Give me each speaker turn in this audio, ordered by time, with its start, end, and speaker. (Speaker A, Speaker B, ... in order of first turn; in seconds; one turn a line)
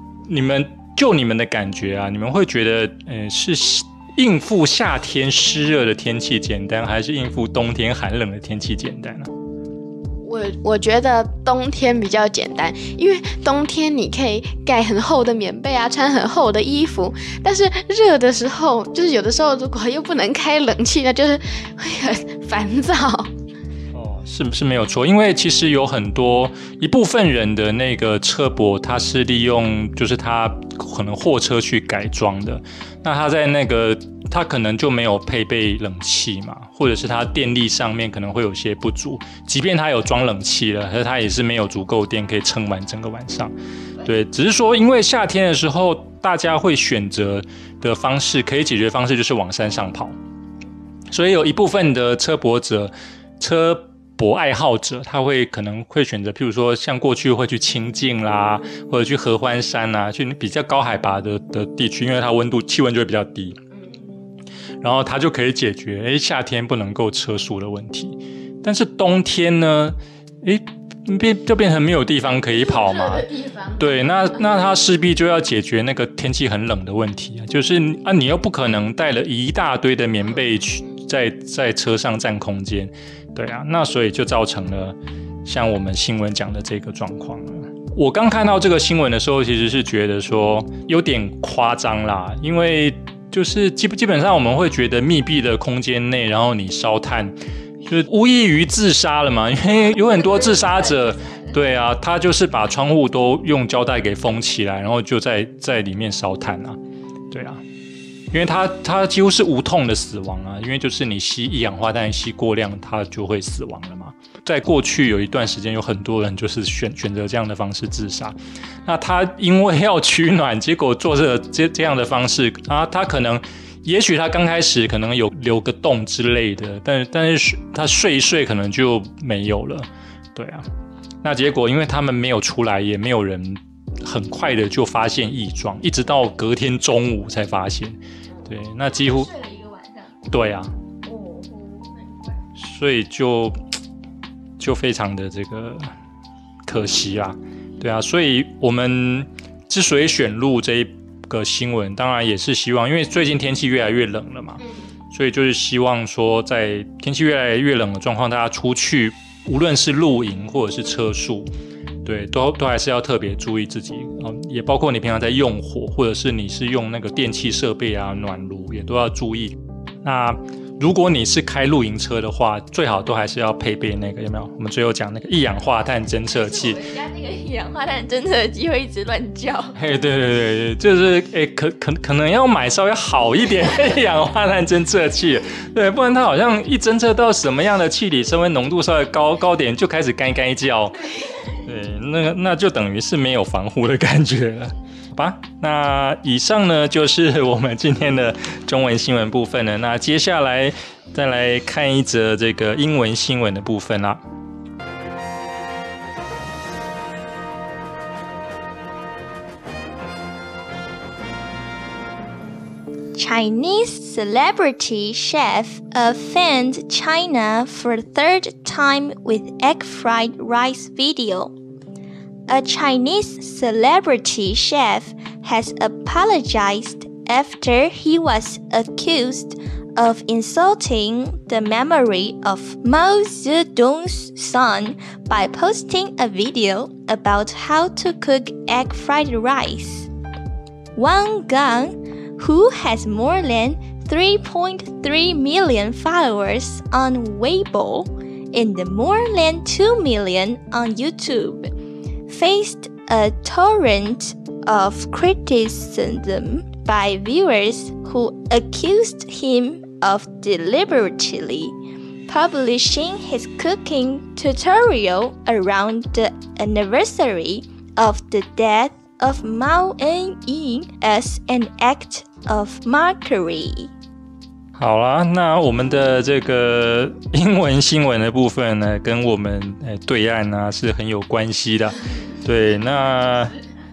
Speaker A: 0.3-9.3
Speaker B: 10.2-23.3
Speaker A: 23.9-50.2
Speaker A: 51.1-63.6
Speaker A: 64.8-106.8
Speaker A: 107.3-107.6
Speaker A: 108.3-130.7
Speaker A: 131.2-139.3
Speaker C: 139.3-140.1
Speaker A: 140.3-140.7
Speaker C: 141.1-141.9
Speaker A: 142.6-143.6
Speaker A: 144.6-145.9
Speaker A: 146.7-161.5
Speaker A: 162.1-176.9
Speaker C: 176.3-179.8
Speaker A: 179.8-191.0
Speaker A: 191.6-204.2
Speaker C: 213.2-221.5
Speaker C: 222.5-240.1
Speaker C: 240.9-251.7
Speaker C: 252.3-261.8
Speaker C: 262.3-273.9
Speaker A: 274.8-283.6